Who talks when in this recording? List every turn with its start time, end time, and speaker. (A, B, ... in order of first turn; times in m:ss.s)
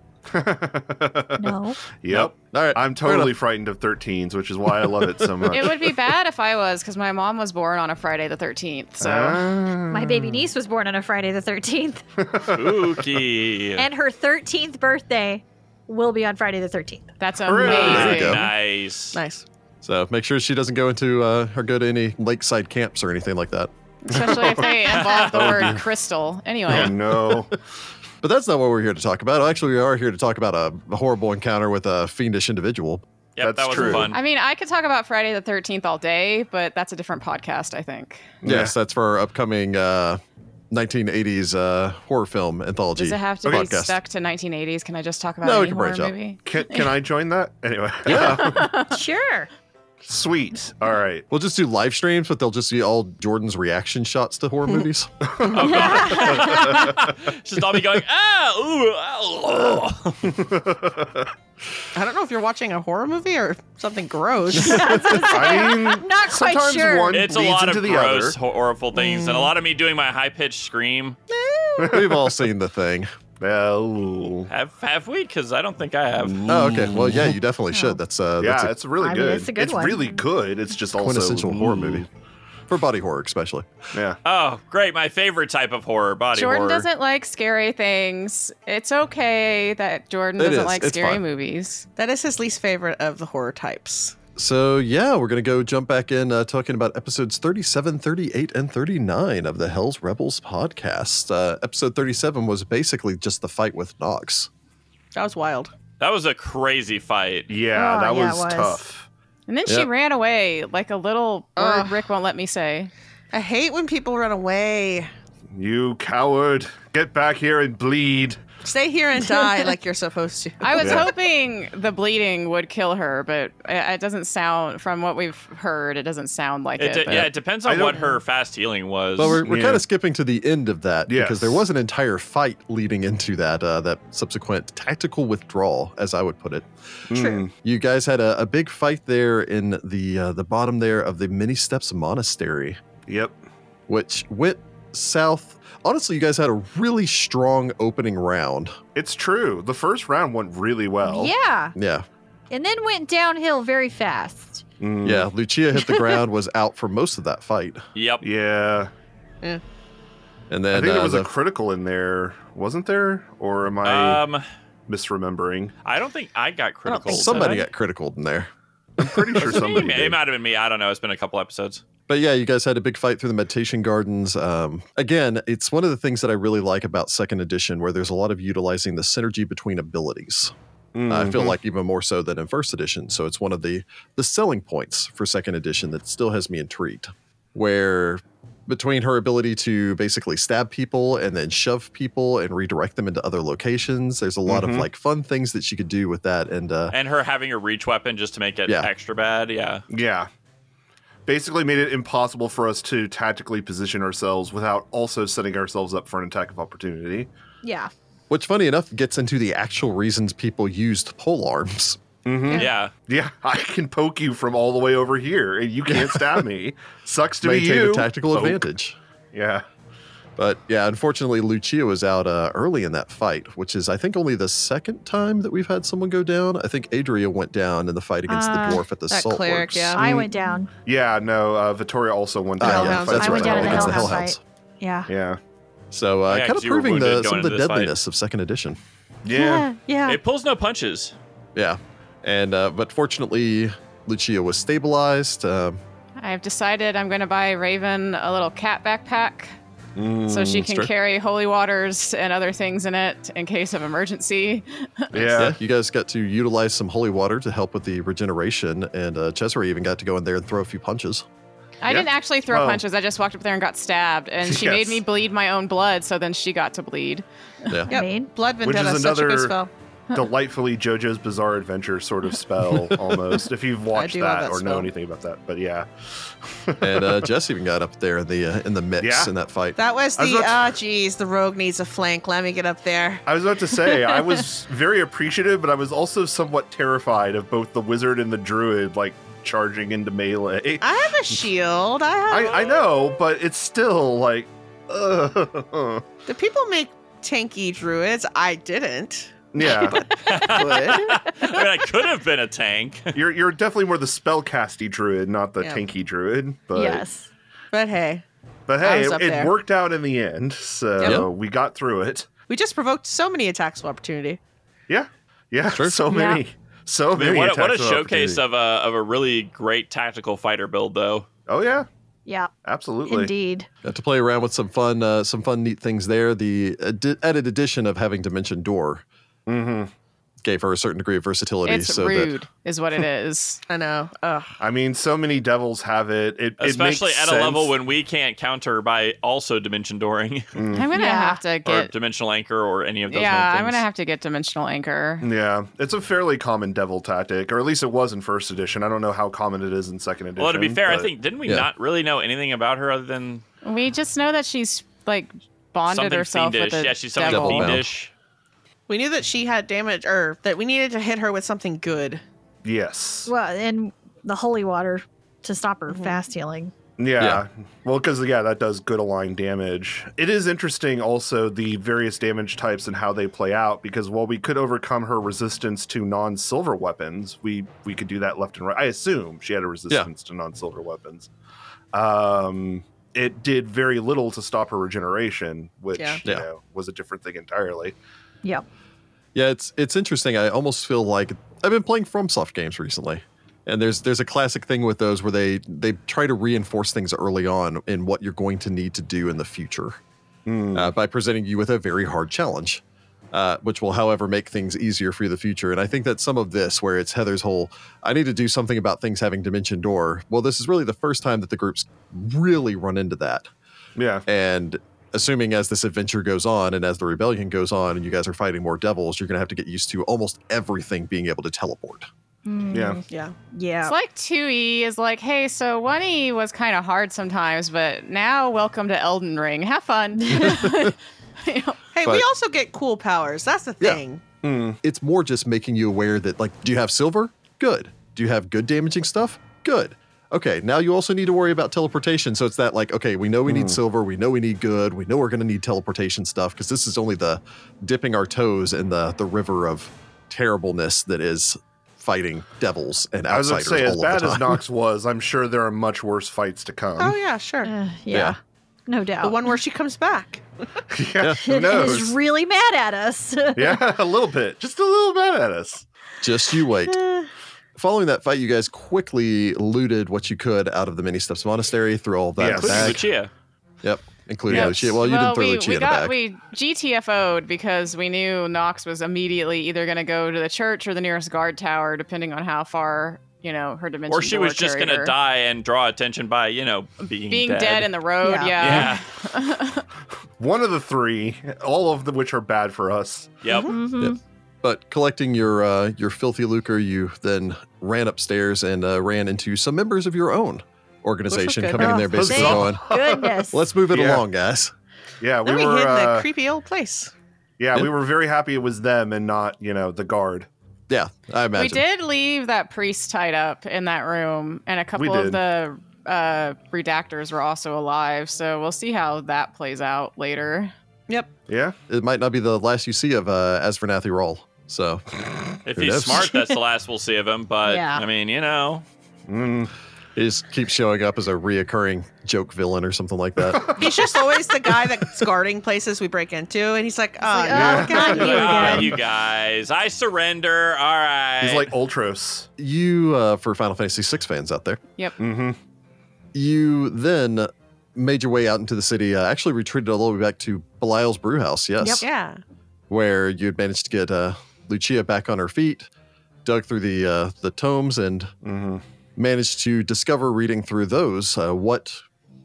0:00.3-0:06.0 A
0:01.4-0:01.8 B
0:02.1-0:03.3 C
0:04.7-0:05.1 C
0:05.5-0:09.4 D
0:09.0-0:10.5 A
0:09.9-0:12.0 B
0:12.2-0:13.0 A
0:12.5-0:13.9 E
0:13.8-0:17.1 B
0:17.2-0:18.5 D
0:17.4-0:18.2 A
0:17.6-0:19.2 E
0:17.8-0:18.5 C
0:19.1-0:19.4 F
0:19.8-0:23.7 C
0:24.0-0:27.0 D
0:24.1-0:24.7 A
0:24.8-0:25.7 E
0:25.3-0:25.8 C
0:26.7-0:27.6 A
0:28.2-0:33.0 C
0:33.4-0:34.2 E
0:33.4-0:34.2 A
0:34.0-0:38.4 D
0:38.4-0:38.8 A
0:38.4-0:44.0 C
0:43.0-0:46.9 D
0:45.4-0:46.1 C
0:46.4-0:48.8 A
0:48.1-0:48.4 C
0:48.2-0:48.9 D
0:48.8-0:49.5 B
0:50.0-0:51.3 A
0:51.3-0:55.3 C
0:55.5-1:00.5 E
0:55.6-0:56.9 B
0:56.4-0:56.7 A
1:00.3-1:01.3 A
1:01.9-1:05.2 F
1:04.5-1:07.3 B
1:05.1-1:08.4 A
1:07.1-1:11.2 E
1:09.0-1:09.5 B
1:11.4-1:11.9 B
1:11.8-1:12.3 A
1:11.8-1:13.1 C
1:13.4-1:14.5 A
1:14.5-1:17.3 E
1:16.3-1:17.2 A
1:16.5-1:18.7 C
1:18.4-1:22.1 A
1:19.0-1:20.2 B
1:21.0-1:22.1 C
1:22.7-1:23.7 C
1:23.9-1:24.2 A
1:24.2-1:26.9 E
1:26.3-1:31.9 D
1:30.4-1:31.2 C
1:32.0-1:34.2 F
1:34.4-1:44.5 C
1:45.2-1:45.7 F
1:46.0-1:47.5 E
1:47.5-1:49.1 A
1:47.7-1:48.8 B
1:49.5-1:52.9 D
1:51.6-1:52.0 F
1:53.3-1:55.1 F
1:55.5-1:58.4 A
1:58.6-2:01.1 F
2:00.6-2:07.3 D
2:00.8-2:01.1 A
2:06.8-2:09.5 E
2:07.6-2:08.1 A
2:09.2-2:16.7 C
2:09.3-2:09.8 A
2:11.1-2:11.6 A
2:17.1-2:17.5 A
2:17.1-2:17.4 B
2:17.6-2:22.8 C
2:23.1-2:23.4 A
2:23.9-2:28.8 C
2:29.0-2:31.3 A
2:31.0-2:31.7 B
2:31.8-2:32.1 C
2:32.5-2:34.6 B
2:34.8-2:35.3 A
2:35.0-2:37.8 C
2:35.9-2:36.2 B
2:38.0-2:38.2 E
2:38.2-2:38.9 A
2:40.5-2:41.3 C
2:40.7-2:44.2 A
2:43.8-2:44.4 E
2:44.9-2:45.7 A
2:45.8-2:47.6 E
2:46.9-2:47.7 D
2:47.1-2:50.2 C
2:49.0-2:50.2 A
2:49.4-2:51.8 E
2:52.1-3:00.5 C
3:01.0-3:01.6 A
3:01.1-3:17.0 C
3:14.5-3:14.9 A
3:16.9-3:19.8 E
3:19.9-3:20.3 A
3:21.3-3:27.3 A
3:27.6-3:27.9 B
3:28.3-3:32.0 C
3:32.2-3:38.6 A
3:32.5-3:32.9 E
3:37.4-3:39.0 C
3:39.3-3:39.6 A
3:40.4-3:50.1 C
3:48.3-3:48.8 B
3:49.1-3:50.1 F
3:50.0-3:50.7 B
3:50.8-3:54.0 A
3:52.6-3:54.4 C
3:52.6-3:54.2 F
3:52.7-3:55.1 B
3:55.1-3:55.4 A
3:55.9-3:58.8 C
3:56.3-3:58.0 E
3:59.2-3:59.7 A
3:59.3-4:00.2 B
4:00.1-4:01.2 E
4:01.6-4:05.8 C
4:06.2-4:09.6 D
4:10.0-4:10.6 A
4:10.3-4:15.2 D
4:10.6-4:10.9 C
4:15.1-4:15.6 A
4:15.3-4:21.2 C
4:21.8-4:27.2 D
4:21.9-4:22.8 A
4:24.4-4:25.0 A
4:27.8-4:28.3 B
4:27.9-4:29.7 F
4:28.6-4:29.6 A
4:30.1-4:37.2 A
4:33.9-4:34.9 F
4:36.8-4:39.8 C
4:39.0-4:39.3 A
4:39.8-4:43.2 F
4:40.2-4:40.7 A
4:43.3-4:50.8 A
4:50.8-4:52.9 F
4:52.3-4:56.1 A
4:56.3-5:01.6 F
4:59.5-5:00.0 A
5:00.2-5:03.2 E
5:03.1-5:07.1 A
5:06.7-5:07.3 B
5:07.7-5:08.2 F
5:08.7-5:12.3 A
5:08.8-5:09.5 F
5:11.0-5:11.2 F
5:11.0-5:11.3 C
5:12.5-5:14.4 F
5:14.9-5:18.4 A
5:15.7-5:16.0 C
5:16.1-5:16.4 B
5:17.1-5:21.3 E
5:21.5-5:21.9 A
5:22.6-5:23.3 A
5:23.1-5:23.7 B
5:23.8-5:29.0 C
5:29.5-5:29.9 A
5:30.4-5:32.4 C
5:31.6-5:33.6 D
5:33.7-5:34.6 F
5:34.6-5:37.7 A
5:36.6-5:40.6 E
5:40.6-5:40.9 A
5:40.7-5:41.9 D
5:40.9-5:41.4 B
5:41.6-5:43.8 E
5:43.1-5:45.3 D
5:45.2-5:51.1 A
5:50.4-5:53.4 E
5:53.6-5:57.8 D
5:55.9-5:58.1 E
5:57.3-5:57.9 C
5:58.9-6:02.2 F
6:02.6-6:03.3 A
6:03.3-6:06.7 B
6:05.9-6:06.2 F
6:07.0-6:21.3 A
6:07.2-6:07.4 C
6:21.9-6:28.0 A
6:26.0-6:26.2 F
6:29.3-6:40.0 C
6:40.5-6:40.9 A
6:40.7-6:53.5 C
6:54.0-6:54.2 A
6:54.3-7:02.1 C
7:02.5-7:04.0 B
7:02.7-7:03.0 A
7:03.1-7:03.4 F
7:03.8-7:11.8 D
7:10.2-7:10.7 B
7:10.3-7:10.9 C
7:12.0-7:14.2 F
7:14.4-7:14.8 A
7:14.8-7:34.6 C
7:23.5-7:23.8 A
7:33.3-7:37.2 A
7:37.0-7:37.7 F
7:37.6-7:39.5 B
7:38.1-7:38.4 C
7:39.2-7:40.4 F
7:40.9-7:42.2 A
7:41.2-7:41.6 C
7:41.4-7:43.8 B
7:43.6-7:45.9 A
7:46.2-7:47.0 C
7:46.9-7:47.3 B
7:47.8-7:53.0 C
7:52.4-7:53.0 A
7:52.5-7:53.3 E
7:53.8-7:56.2 C
7:54.5-7:54.8 A
7:54.5-8:05.1 D
8:04.1-8:07.9 E
8:07.3-8:09.8 D
8:08.2-8:08.9 B
8:08.6-8:09.0 E
8:10.4-8:13.4 A
8:13.4-8:13.8 E
8:13.5-8:13.8 F
8:13.7-8:14.2 B
8:14.0-8:22.9 C
8:21.3-8:22.2 F
8:21.8-8:24.3 A
8:22.0-8:23.6 B
8:23.5-8:24.7 C
8:25.2-8:26.3 A
8:25.5-8:27.1 F
8:27.6-8:30.5 A
8:30.9-8:31.8 C
8:31.5-8:40.7 D
8:35.0-8:35.4 A
8:41.5-8:41.8 A
8:41.9-8:46.3 C
8:45.6-8:48.8 E
8:47.6-8:48.0 B
8:49.3-8:49.7 A
8:50.2-8:53.9 C
8:53.5-8:54.0 A
8:53.8-8:58.8 F
8:57.3-8:59.0 B
8:57.5-8:58.9 A
8:58.0-9:01.7 E
9:01.4-9:02.5 A
9:02.6-9:04.8 C
9:05.2-9:05.6 A
9:06.3-9:12.0 C
9:12.0-9:12.4 F
9:12.9-9:15.9 C
9:16.4-9:18.3 C
9:18.4-9:18.8 A
9:19.2-9:22.0 C